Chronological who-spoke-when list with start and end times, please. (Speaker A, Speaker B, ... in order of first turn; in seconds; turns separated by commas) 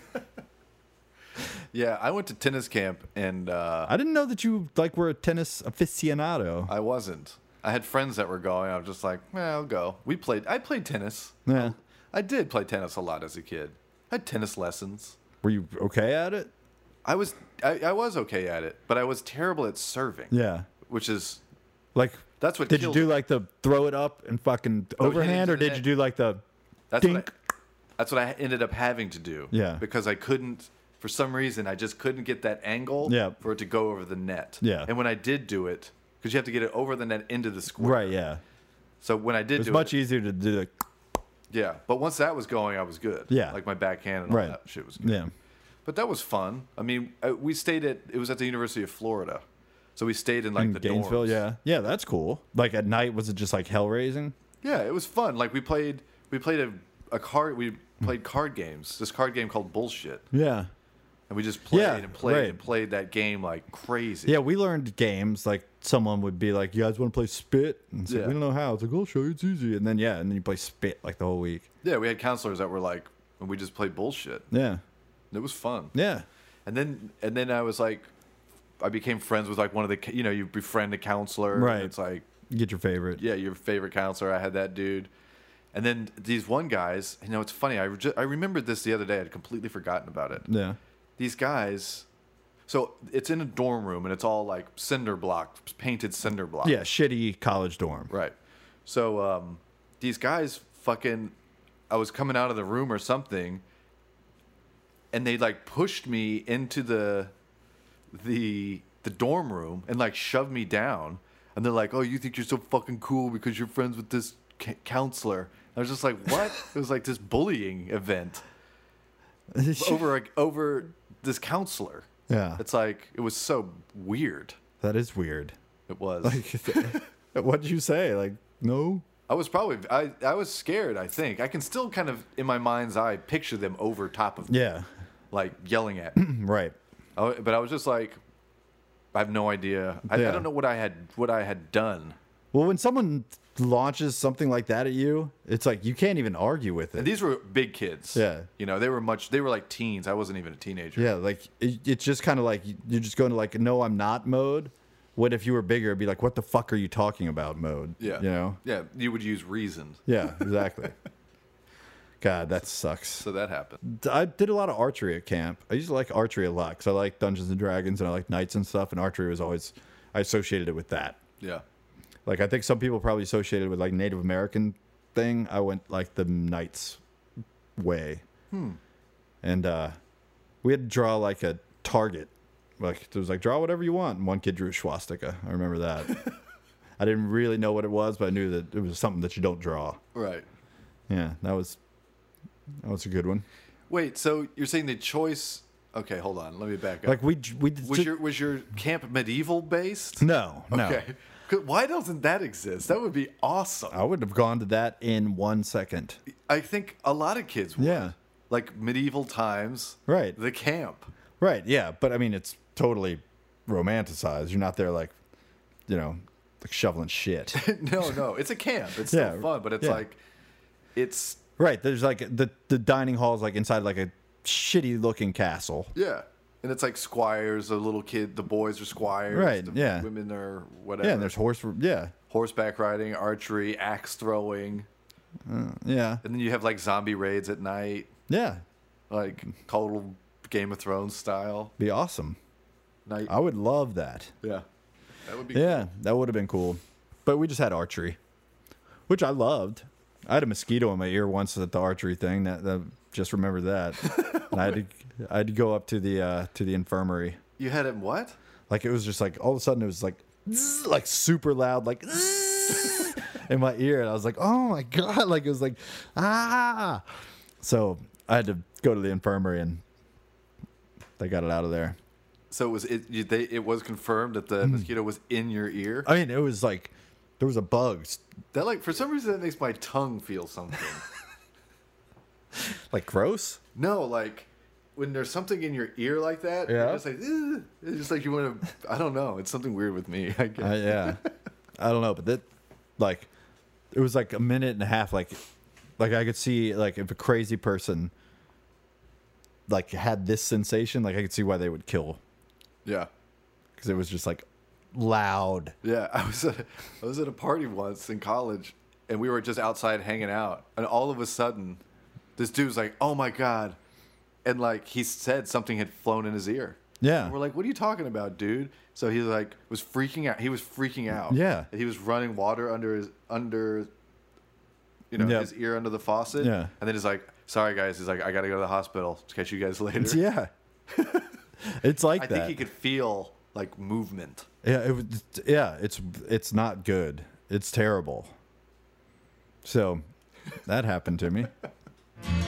Speaker A: 1.7-3.9, Speaker B: 3.9-6.7, Speaker A: 6.7-15.2, Speaker B: 11.4-11.7, Speaker B: 15.4-16.5, Speaker A: 17.0-20.3, Speaker B: 20.3-20.7, Speaker A: 20.8-21.4, Speaker B: 21.9-26.4, Speaker A: 22.4-23.1, Speaker A: 25.0-25.9, Speaker A: 26.9-27.3, Speaker B: 27.0-27.3, Speaker A: 28.0-38.2, Speaker B: 29.5-29.8, Speaker B: 33.0-33.4, Speaker B: 34.6-34.9, Speaker B: 37.8-38.4, Speaker A: 39.0-40.0, Speaker B: 39.5-40.7, Speaker A: 41.5-45.2, Speaker B: 43.3-43.6, Speaker B: 44.2-45.3, Speaker A: 45.8-49.4, Speaker A: 50.0-51.4, Speaker B: 50.5-54.3, Speaker A: 54.6-60.3, Speaker B: 60.3-60.7, Speaker A: 61.3-64.4, Speaker B: 61.7-62.6, Speaker B: 64.2-71.7, Speaker A: 68.1-68.4, Speaker A: 71.8-74.5, Speaker B: 74.5-74.8, Speaker A: 75.3-75.9, Speaker B: 75.9-76.2, Speaker A: 76.7-78.1, Speaker A: 78.8-82.2, Speaker B: 81.5-81.9, Speaker B: 82.5-83.2, Speaker A: 83.2-85.1, Speaker A: 85.7-90.5, Speaker B: 90.5-90.8, Speaker A: 91.2-92.0, Speaker A: 92.7-96.8, Speaker B: 96.6-98.1, Speaker A: 98.1-101.3, Speaker A: 101.9-103.6, Speaker A: 105.1-107.3, Speaker A: 108.1-118.4, Speaker B: 119.5-120.1, Speaker A: 119.8-124.6, Speaker B: 122.3-122.6, Speaker B: 124.8-125.5, Speaker A: 125.9-127.0, Speaker B: 126.2-129.1, Speaker A: 129.3-134.6, Speaker B: 134.5-134.9, Speaker A: 135.3-136.2, Speaker B: 136.2-136.8, Speaker A: 137.2-138.2, Speaker A: 139.1-142.2, Speaker B: 140.1-140.5, Speaker B: 142.5-147.2, Speaker A: 146.9-151.1, Speaker B: 148.1-148.5, Speaker B: 150.9-158.6, Speaker A: 158.0-160.5, Speaker B: 160.1-160.9, Speaker B: 162.2-163.2, Speaker A: 163.2-163.8, Speaker B: 163.8-171.2, Speaker B: 172.2-177.0, Speaker B: 177.8-178.2, Speaker A: 178.5-178.8, Speaker B: 179.4-180.0, Speaker B: 180.6-186.2, Speaker B: 187.0-190.0, Speaker A: 190.1-190.4, Speaker B: 191.1-191.8, Speaker B: 192.8-193.4, Speaker A: 193.9-197.2, Speaker B: 197.0-198.2, Speaker A: 197.8-204.0, Speaker B: 200.2-201.0, Speaker B: 203.9-206.2, Speaker A: 206.3-211.1, Speaker B: 207.8-208.1, Speaker B: 210.1-210.4, Speaker B: 211.4-215.1, Speaker B: 215.9-217.7, Speaker A: 217.5-220.2, Speaker B: 219.1-220.0, Speaker A: 220.9-221.4, Speaker B: 221.6-225.9, Speaker A: 225.9-231.3, Speaker B: 229.3-230.1, Speaker B: 231.0-232.1, Speaker A: 232.3-234.9, Speaker B: 235.4-236.2, Speaker A: 236.2-238.1, Speaker B: 238.3-238.6, Speaker A: 239.1-241.7, Speaker B: 241.8-242.4, Speaker A: 243.1-243.3, Speaker B: 243.3-244.3, Speaker A: 245.2-245.9, Speaker B: 245.5-248.2, Speaker B: 249.1-257.4, Speaker A: 254.1-254.5, Speaker A: 257.6-258.4, Speaker B: 258.7-267.0, Speaker B: 267.6-269.8, Speaker B: 271.2-272.0, Speaker A: 272.5-276.1, Speaker B: 274.6-274.9, Speaker B: 276.0-278.2, Speaker A: 278.5-281.0, Speaker B: 282.7-283.6, Speaker A: 283.7-291.2, Speaker B: 286.7-287.0, Speaker B: 290.6-291.2, Speaker B: 291.8-292.4, Speaker B: 293.0-293.3, Speaker B: 293.9-295.4, Speaker B: 296.0-298.1, Speaker B: 299.7-302.2, Speaker B: 303.8-305.7, Speaker A: 305.8-311.8, Speaker A: 312.4-313.8, Speaker A: 314.4-323.9, Speaker B: 317.0-317.3, Speaker B: 321.2-321.7, Speaker A: 325.1-330.2, Speaker B: 325.2-325.5, Speaker B: 326.4-326.7, Speaker B: 330.0-330.5, Speaker A: 330.9-331.3, Speaker B: 331.6-332.6, Speaker A: 332.1-334.5, Speaker B: 334.6-338.3, Speaker B: 339.6-340.0, Speaker B: 340.6-341.5